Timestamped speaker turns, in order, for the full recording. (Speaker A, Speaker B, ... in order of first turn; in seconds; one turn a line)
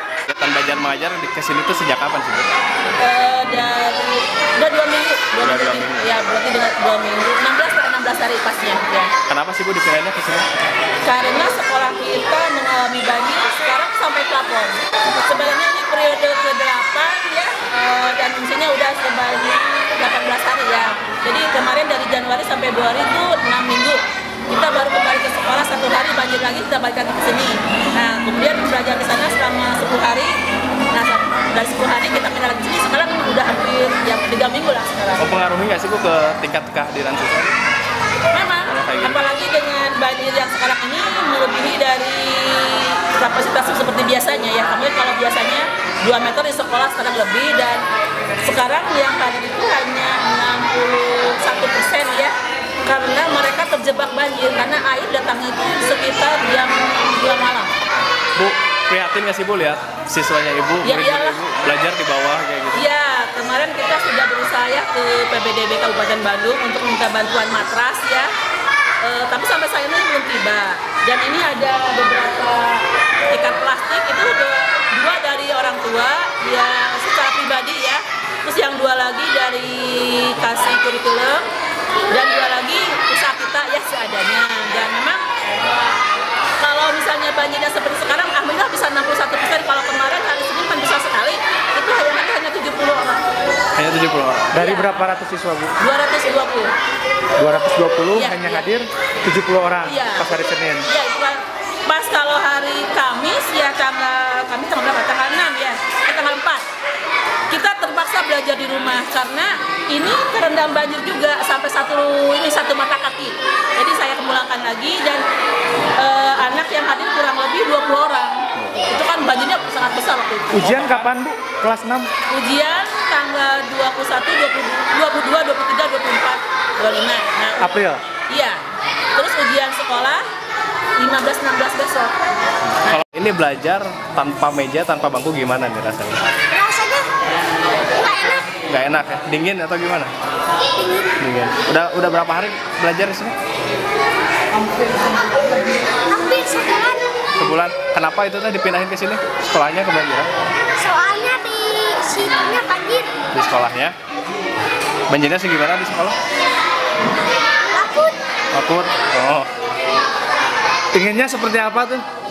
Speaker A: 0.3-2.5
Speaker B: 3.0-9.1
Speaker A: 5.4-6.1
Speaker A: 9.3-10.5
Speaker B: 11.0-30.4
Speaker A: 15.1-15.6
Speaker B: 30.9-35.3
Speaker A: 35.2-37.5
Speaker B: 38.3-47.8
Speaker A: 38.7-39.3
Speaker B: 48.4-52.3
Speaker B: 52.9-57.8
Speaker A: 58.4-62.9
Speaker B: 60.8-61.4
Speaker B: 62.7-68.3
Speaker B: 69.0-81.5
Speaker B: 82.1-85.7
Speaker B: 86.6-93.2
Speaker A: 93.8-94.6
Speaker C: 94.5-95.7
Speaker B: 94.6-95.0
Speaker B: 95.8-96.7
Speaker C: 97.4-100.8
Speaker B: 98.1-98.7
Speaker B: 99.9-100.3
Speaker B: 100.9-106.7
Speaker B: 107.5-115.2
Speaker B: 116.0-120.8
Speaker A: 118.6-119.1
Speaker C: 120.5-122.1
Speaker A: 120.7-121.1
Speaker B: 122.3-128.6
Speaker C: 127.6-128.0
Speaker B: 129.2-130.3
Speaker B: 131.0-132.1
Speaker A: 132.7-136.2
Speaker D: 136.5-137.1
Speaker D: 137.9-138.6
Speaker A: 138.6-140.1
Speaker D: 140.8-141.1
Speaker A: 141.2-143.4
Speaker D: 146.1-147.0
Speaker A: 147.4-150.3
Speaker D: 150.7-153.2
Speaker A: 153.3-153.9
Speaker A: 155.1-156.2
Speaker D: 157.7-158.2
Speaker A: 158.5-159.5
Speaker C: 160.9-162.0